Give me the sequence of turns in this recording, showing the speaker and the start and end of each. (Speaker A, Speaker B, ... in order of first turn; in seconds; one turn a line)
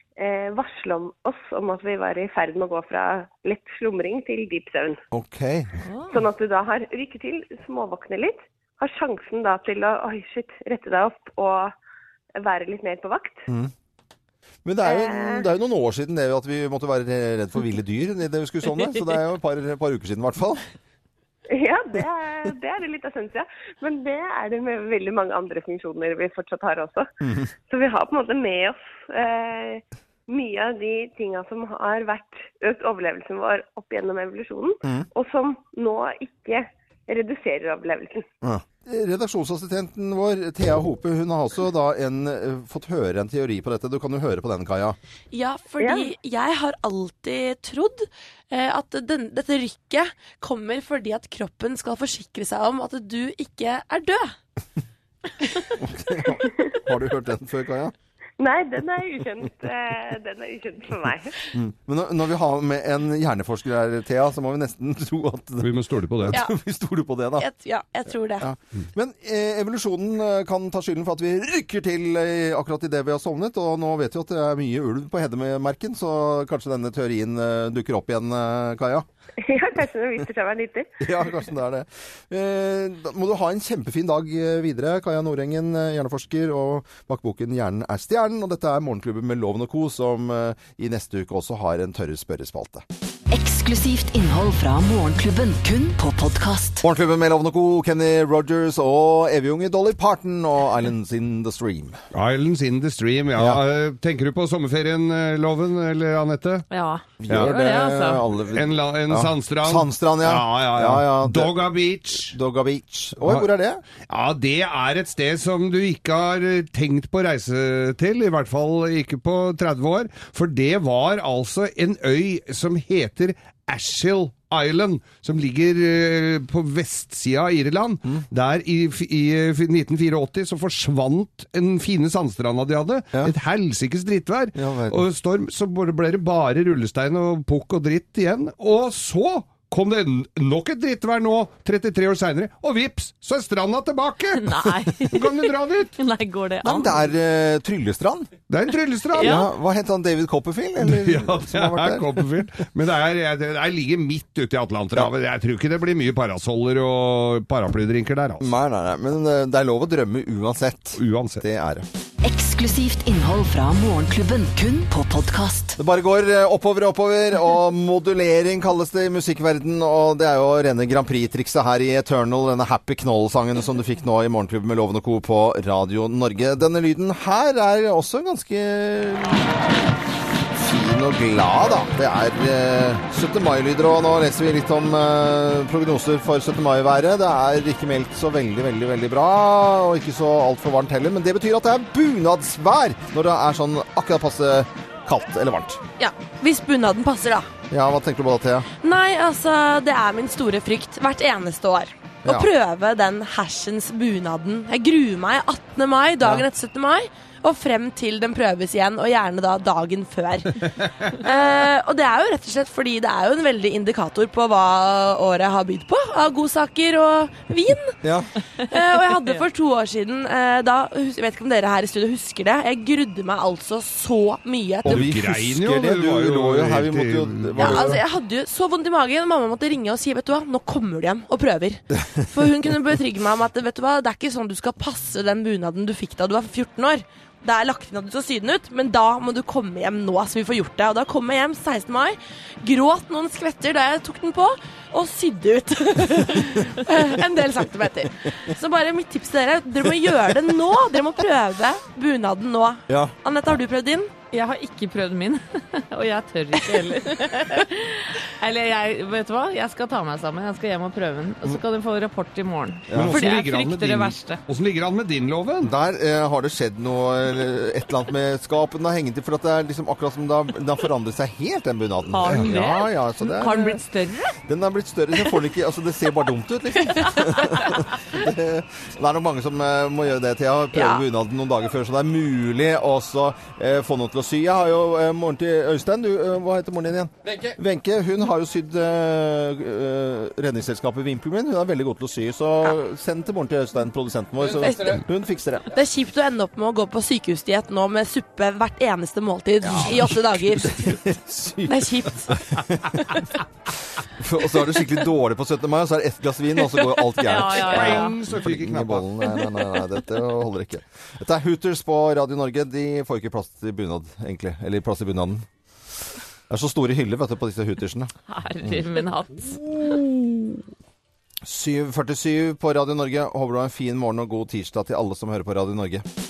Speaker A: 0.2-5.0
Speaker B: 5.1-5.7
Speaker C: 5.8-6.2
Speaker A: 6.1-11.7
Speaker A: 12.4-13.5
Speaker B: 14.7-20.6
Speaker A: 14.8-15.5
Speaker A: 21.5-27.1
Speaker B: 27.2-27.5
Speaker A: 27.7-38.2
Speaker B: 38.4-45.0
Speaker D: 45.3-54.4
Speaker A: 45.8-46.1
Speaker B: 55.8-57.9
Speaker A: 58.4-61.3
Speaker B: 61.5-67.5
Speaker E: 65.6-66.4
Speaker D: 67.4-68.5
Speaker B: 68.4-79.1
Speaker A: 79.4-81.0
Speaker B: 81.0-92.9
Speaker F: 93.3-96.8
Speaker B: 96.8-102.0
Speaker E: 102.1-106.7
Speaker C: 106.7-108.3
Speaker B: 107.2-111.6
Speaker E: 107.3-107.6
Speaker E: 108.5-112.4
Speaker B: 112.2-113.8
Speaker E: 114.0-146.0
Speaker B: 134.6-135.0
Speaker C: 144.4-147.1
Speaker B: 146.6-148.3
Speaker E: 148.5-149.5
Speaker B: 149.2-152.3
Speaker C: 149.2-149.5
Speaker E: 150.8-158.5
Speaker B: 158.4-161.9
Speaker E: 161.0-161.4
Speaker F: 162.2-165.8
Speaker B: 165.8-179.6
Speaker B: 180.5-195.8
Speaker D: 196.0-197.5
Speaker B: 197.7-198.7
Speaker D: 198.8-218.0
Speaker B: 218.0-218.3
Speaker D: 218.7-225.2
Speaker C: 218.9-219.4
Speaker B: 224.8-228.0
Speaker E: 224.9-228.0
Speaker D: 227.6-254.1
Speaker B: 252.9-253.2
Speaker C: 254.3-264.4
Speaker B: 262.9-263.2
Speaker E: 262.9-265.7
Speaker B: 265.6-273.8
Speaker C: 272.1-274.4
Speaker B: 274.4-295.7
Speaker D: 280.7-281.0
Speaker D: 294.6-295.0
Speaker D: 295.7-300.8
Speaker B: 299.6-303.1
Speaker D: 301.7-302.4
Speaker B: 304.1-315.5
Speaker C: 307.2-308.1
Speaker E: 307.6-309.1
Speaker B: 316.5-318.1
Speaker C: 318.3-320.0
Speaker B: 319.6-320.1
Speaker B: 321.4-326.0